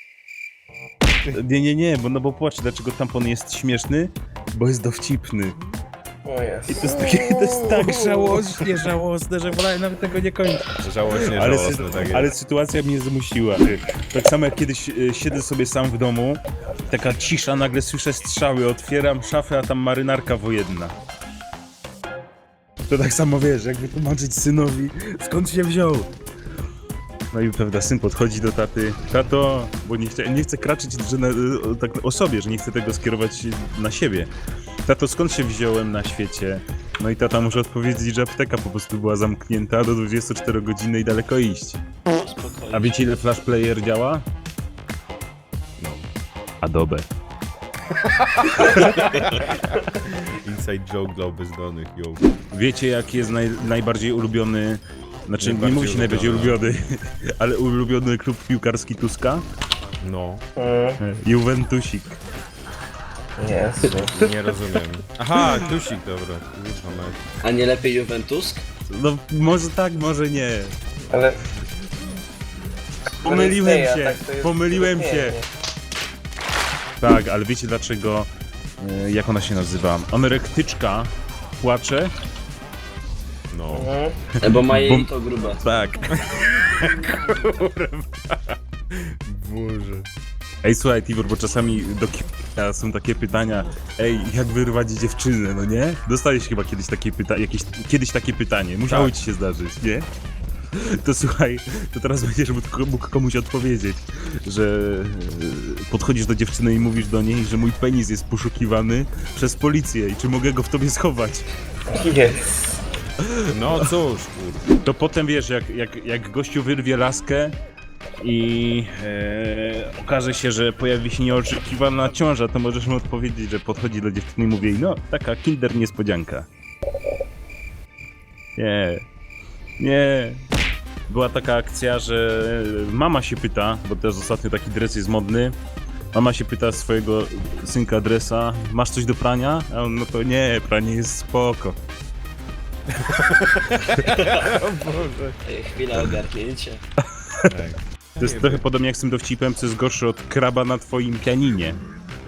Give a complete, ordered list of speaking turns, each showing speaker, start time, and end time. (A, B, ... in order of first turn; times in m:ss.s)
0:01.3-0:05.6 A
0:06.2-0:07.0 B
0:06.7-0:20.9 A
0:07.0-0:08.7 C
0:10.8-0:12.3 C
0:22.9-0:26.1 A
0:27.3-0:34.3 A
0:34.8-0:41.8 A
0:42.1-0:43.0 D
0:42.7-0:44.2 A
0:45.8-0:46.1 C
0:46.6-0:47.1 A
0:48.0-0:52.2 C
0:48.6-0:49.2 A
0:52.5-0:59.4 A
0:55.4-0:56.6 C
1:00.0-1:00.4 C
1:00.6-1:01.0 B
1:01.0-1:02.2 A
1:03.4-1:04.2 B
1:03.9-1:07.2 C
1:05.4-1:05.6 A
1:07.4-1:08.6 D
1:08.9-1:10.8 A
1:11.1-1:11.4 B
1:13.2-1:15.4 A
1:13.2-1:15.5 B
1:17.0-1:18.3 A
1:18.8-1:22.1 A
1:23.5-1:23.9 C
1:23.7-1:24.2 B
1:24.4-1:25.6 D
1:24.6-1:25.1 A
1:25.6-1:30.1 C
1:30.6-1:40.1 A
1:38.9-1:39.1 C
1:40.7-1:51.5 A
1:51.9-1:52.7 B
1:53.2-1:53.5 A
1:53.5-1:54.6 C
1:54.8-1:57.5 A
1:58.2-2:06.5 A
2:08.6-2:09.0 A
2:09.8-2:10.4 A
2:11.1-2:15.5 A
2:16.1-2:21.8 A
2:22.9-2:25.4 C
2:24.0-2:24.5 D
2:25.4-2:26.8 D
2:27.4-2:28.6 C
2:28.2-2:31.8 A